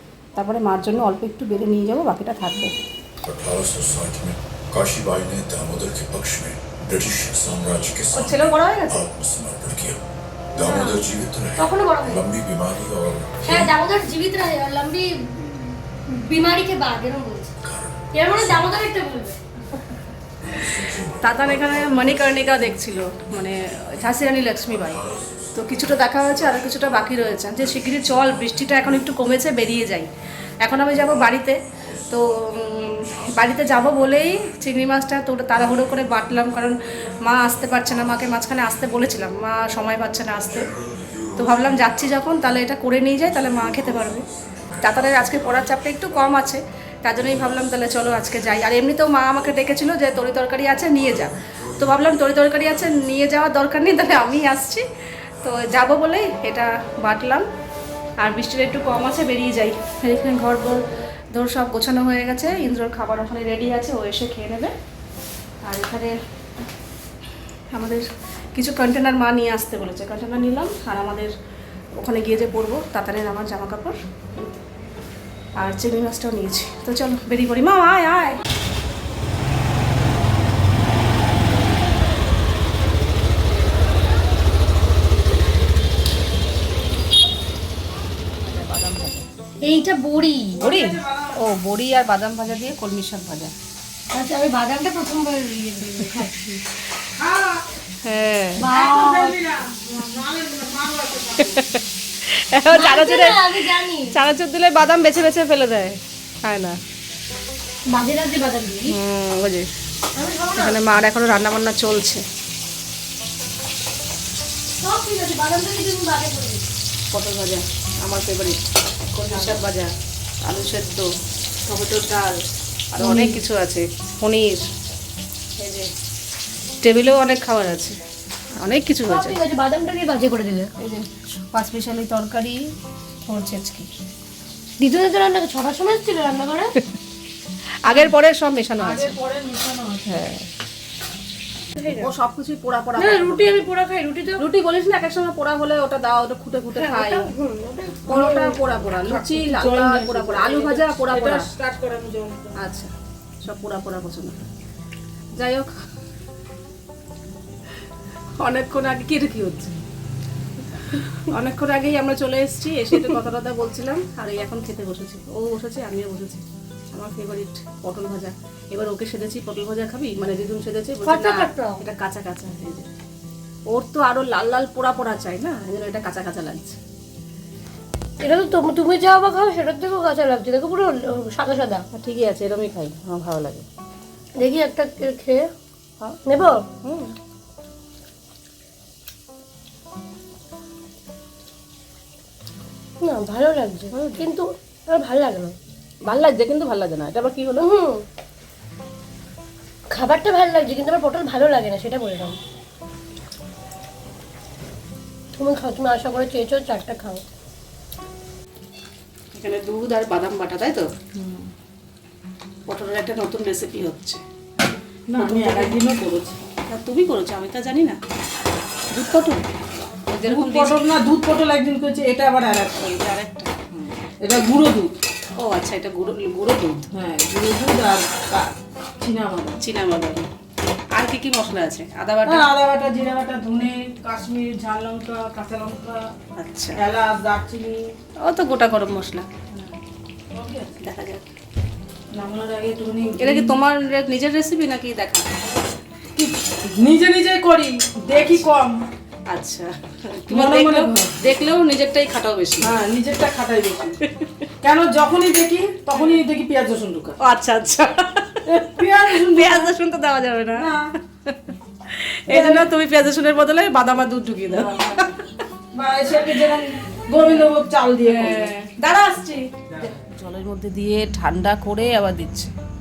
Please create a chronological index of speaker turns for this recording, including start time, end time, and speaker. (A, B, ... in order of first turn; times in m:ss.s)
0:00.4-0:02.7 A
0:03.2-0:13.7 B
0:08.1-0:09.1 A
0:10.6-0:11.0 C
0:11.6-0:12.3 C
0:13.4-0:17.5 C
0:17.6-0:18.8 B
0:18.1-0:19.4 C
0:20.4-0:29.8 B
0:21.2-0:25.0 A
0:25.6-0:30.1 A
0:30.6-0:31.6 A
0:30.7-0:34.4 B
0:32.1-0:40.7 A
0:35.6-0:36.1 B
0:36.8-0:38.2 B
0:40.4-0:42.6 B
0:41.4-0:44.2 A
0:43.2-0:46.5 B
0:44.8-0:54.8 A
0:47.2-0:48.8 B
0:49.3-0:50.0 B
0:50.9-0:54.6 B
0:55.4-0:57.4 A
0:58.2-1:00.8 A
1:01.3-1:04.7 A
1:05.6-1:06.2 A
1:07.7-1:08.0 A
1:08.6-1:11.3 A
1:12.0-1:14.6 A
1:15.6-1:18.4 A
1:28.4-1:29.3 A
1:29.6-1:30.8 C
1:30.6-1:31.4 D
1:30.6-1:33.5 A
1:34.1-1:36.6 C
1:37.2-1:37.6 D
1:38.0-1:38.7 A
1:38.6-1:39.4 C
1:38.7-1:41.6 D
1:41.4-1:43.4 A
1:42.7-1:44.1 C
1:44.1-1:46.8 A
1:47.9-1:48.9 C
1:48.9-1:49.7 A
1:50.2-1:50.8 C
1:50.5-1:52.2 A
1:54.8-1:56.7 C
1:57.1-1:58.6 A
1:59.1-1:59.9 A
1:59.3-1:59.6 C
2:00.4-2:01.1 A
2:01.7-2:02.4 A
2:02.9-2:04.6 A
2:03.0-2:03.4 C
2:05.6-2:05.9 A
2:06.8-2:08.0 A
2:08.6-2:09.4 A
2:09.1-2:10.7 C
2:10.8-2:12.6 A
2:13.3-2:13.9 A
2:14.8-2:16.8 C
2:17.8-2:19.2 A
2:17.8-2:18.1 C
2:18.8-2:20.1 D
2:20.1-2:20.5 A
2:21.8-2:22.1 C
2:21.9-2:23.5 A
2:23.0-2:24.4 C
2:24.4-2:27.3 A
2:26.8-2:28.3 C
2:28.1-2:31.5 A
2:28.2-2:32.5 D
2:32.6-2:32.9 A
2:33.4-2:34.4 A
2:35.4-2:35.7 A
2:38.4-2:39.8 A
2:40.9-2:52.9 A
2:51.0-2:51.8 C
2:53.7-2:56.8 A
2:58.2-3:01.8 C
3:01.9-3:03.6 A
3:04.4-3:05.4 C
3:06.3-3:06.7 C
3:06.8-3:07.1 A
3:13.0-3:15.6 C
3:13.9-3:14.3 A
3:16.0-3:17.7 A
3:17.6-3:18.0 C
3:19.9-3:22.4 C
3:25.3-3:27.2 C
3:29.3-3:30.9 A
3:31.2-3:31.5 D
3:32.7-3:34.2 A
3:35.1-3:36.4 D
3:35.2-3:35.8 A
3:36.7-3:38.0 A
3:38.9-3:39.5 A
3:40.1-3:40.8 A
3:40.2-3:42.9 D
3:42.8-3:44.0 A
3:44.2-3:44.9 D
3:45.4-3:46.9 A
3:46.9-3:49.6 D
3:49.6-3:50.3 A
3:50.9-3:52.5 A
3:52.2-3:56.1 D
3:56.4-3:56.8 A
3:56.8-3:57.9 D
3:58.2-3:59.3 A
4:00.3-4:00.8 D
4:00.8-4:01.3 A
4:02.1-4:03.6 D
4:03.2-4:05.3 A
4:06.2-4:08.8 D
4:08.1-4:08.4 A
4:09.3-4:12.7 A
4:10.3-4:11.1 D
4:12.6-4:14.0 D
4:14.1-4:14.5 A
4:14.6-4:17.2 D
4:15.9-4:16.2 A
4:17.2-4:25.1 A
4:18.5-4:19.7 D
4:20.6-4:20.8 D
4:22.3-4:22.6 D
4:24.5-4:25.1 D
4:25.7-4:28.5 D
4:28.0-4:32.5 A